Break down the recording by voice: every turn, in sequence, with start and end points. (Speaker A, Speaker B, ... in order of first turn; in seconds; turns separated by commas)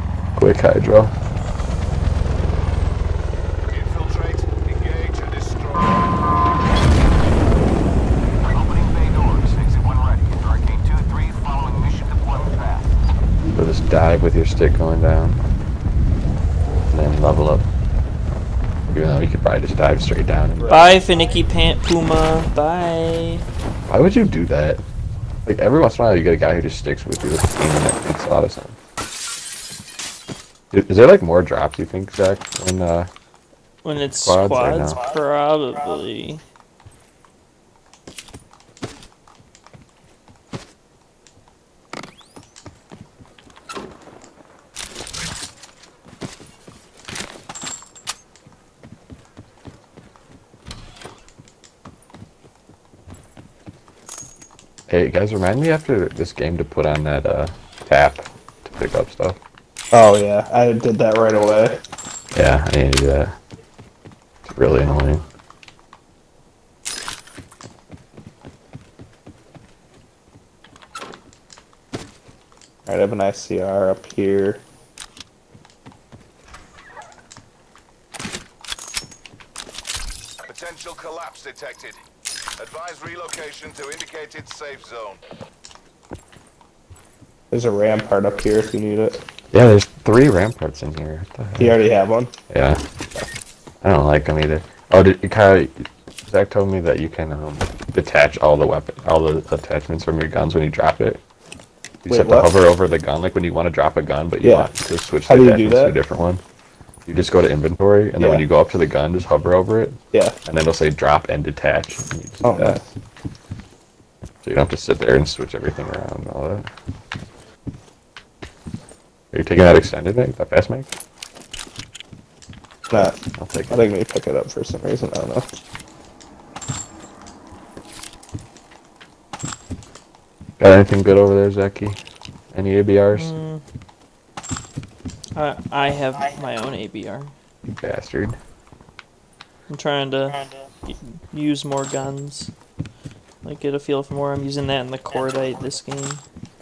Speaker A: 0.4-1.1, Speaker B: 3.7-6.1, Speaker B: 8.5-12.8, Speaker A: 13.5-15.4, Speaker A: 16.9-17.7, Speaker A: 18.9-20.9, Speaker C: 20.6-21.0, Speaker D: 20.7-23.4, Speaker A: 23.9-24.8, Speaker A: 25.5-28.8, Speaker A: 30.7-33.1, Speaker D: 33.8-36.4, Speaker A: 34.2-35.0, Speaker A: 54.9-59.4, Speaker C: 59.9-61.8, Speaker A: 62.3-63.3, Speaker A: 64.4-65.2, Speaker C: 72.9-74.6, Speaker B: 80.5-82.0, Speaker B: 82.6-85.2, Speaker C: 87.5-89.2, Speaker A: 89.5-91.8, Speaker C: 91.6-92.3, Speaker A: 92.5-92.8, Speaker A: 93.8-101.2, Speaker A: 102.0-106.4, Speaker C: 102.1-102.6, Speaker C: 104.4-104.7, Speaker C: 105.3-106.0, Speaker A: 107.1-112.8, Speaker C: 108.2-108.5, Speaker C: 110.1-110.4, Speaker C: 112.4-112.8, Speaker A: 114.4-116.7, Speaker A: 119.3-120.9, Speaker C: 122.9-123.2, Speaker A: 122.9-123.9, Speaker C: 123.7-125.5, Speaker A: 130.6-132.0, Speaker A: 132.5-133.3, Speaker D: 133.1-133.6, Speaker D: 135.3-137.3, Speaker A: 137.7-138.4, Speaker D: 139.7-142.5, Speaker D: 143.4-146.2